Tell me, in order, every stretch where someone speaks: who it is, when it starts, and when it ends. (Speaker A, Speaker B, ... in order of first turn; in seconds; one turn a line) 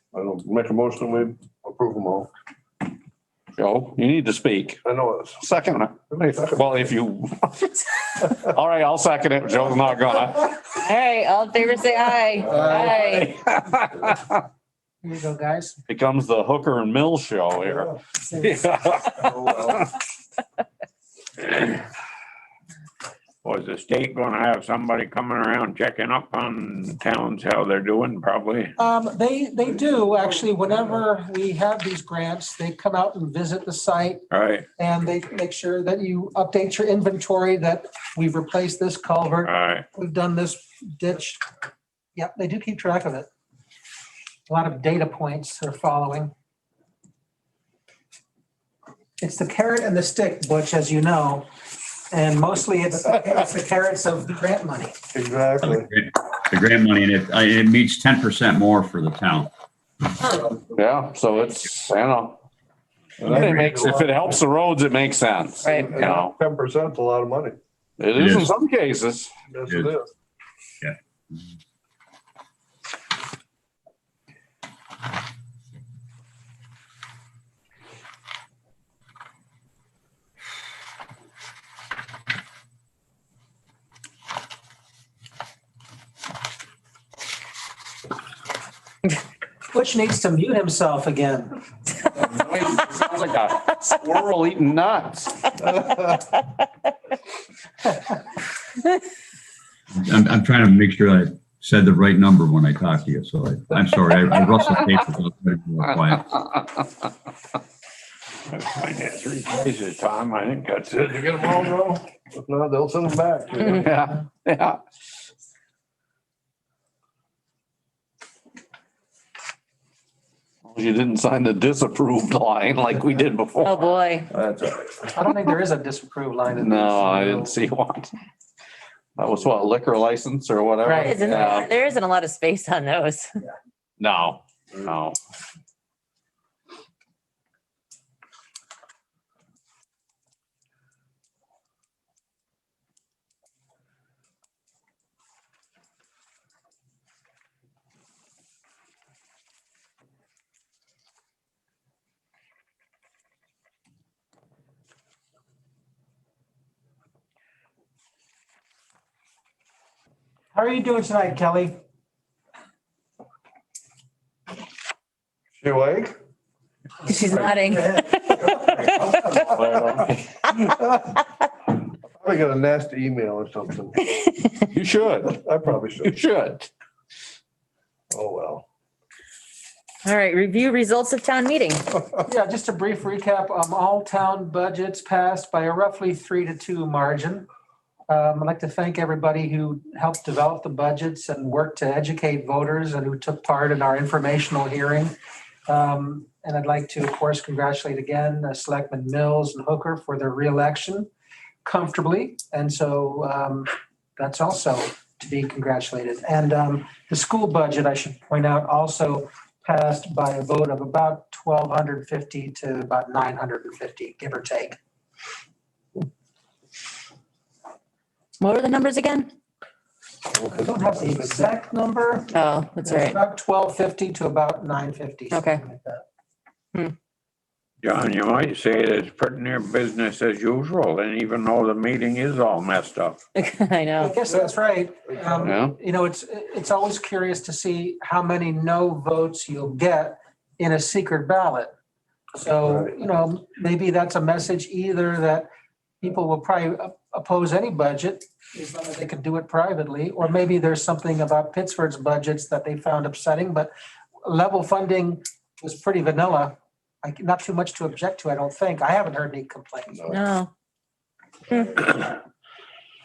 Speaker A: 0.1-2.3
Speaker B: 3.6-4.8
Speaker A: 4.8-5.4
Speaker B: 5.4-10.5
Speaker A: 6.1-6.9
Speaker C: 10.7-13.4
Speaker A: 12.4-13.3
Speaker B: 13.3-14.2
Speaker D: 15.0-15.8
Speaker B: 15.9-19.9
Speaker A: 19.2-19.8
Speaker E: 23.4-28.7
Speaker D: 28.8-34.2
Speaker E: 34.3-34.7
Speaker D: 34.8-41.4
Speaker E: 39.4-39.9
Speaker D: 42.2-43.3
Speaker D: 44.5-46.3
Speaker D: 49.2-51.5
Speaker D: 52.1-54.9
Speaker A: 55.1-55.9
Speaker F: 55.6-59.5
Speaker A: 60.3-60.5
Speaker B: 60.7-62.4
Speaker A: 63.2-64.4
Speaker B: 63.3-66.3
Speaker F: 63.3-63.6
Speaker C: 65.6-66.0
Speaker A: 65.8-67.6
Speaker B: 68.0-69.4
Speaker F: 68.2-68.5
Speaker A: 69.5-70.1
Speaker F: 70.8-71.5
Speaker D: 89.7-91.5
Speaker B: 92.2-95.5
Speaker A: 95.7-96.2
Speaker F: 100.0-106.3
Speaker E: 108.5-111.5
Speaker B: 111.2-111.9
Speaker A: 111.4-113.9
Speaker B: 113.7-114.8
Speaker B: 120.7-124.0
Speaker C: 123.6-124.3
Speaker A: 124.3-125.1
Speaker D: 125.1-127.6
Speaker B: 126.5-128.1
Speaker B: 129.2-131.7
Speaker D: 130.8-131.1
Speaker C: 130.9-133.4
Speaker B: 134.0-135.2
Speaker D: 160.5-161.8
Speaker A: 165.6-166.2
Speaker C: 167.1-169.4
Speaker A: 167.7-171.2
Speaker B: 169.5-170.3
Speaker A: 172.1-174.0
Speaker C: 174.2-174.5
Speaker B: 174.7-175.4
Speaker A: 175.3-176.2
Speaker B: 176.0-176.7
Speaker A: 178.1-178.7
Speaker C: 180.1-181.9
Speaker D: 182.2-187.5
Speaker D: 188.1-195.1
Speaker D: 195.7-201.1
Speaker D: 201.7-214.8
Speaker C: 218.4-219.3
Speaker A: 220.4-220.9
Speaker D: 220.5-226.1
Speaker C: 222.3-223.2
Speaker C: 225.3-225.6
Speaker E: 227.8-233.2
Speaker C: 233.3-234.2
Speaker D: 234.0-241.7
Speaker B: 235.4-235.7
Speaker D: 242.3-245.5
Speaker D: 246.0-253.7
Speaker D: 254.2-260.2
Speaker C: 260.1-260.5
Speaker C: 261.5-261.9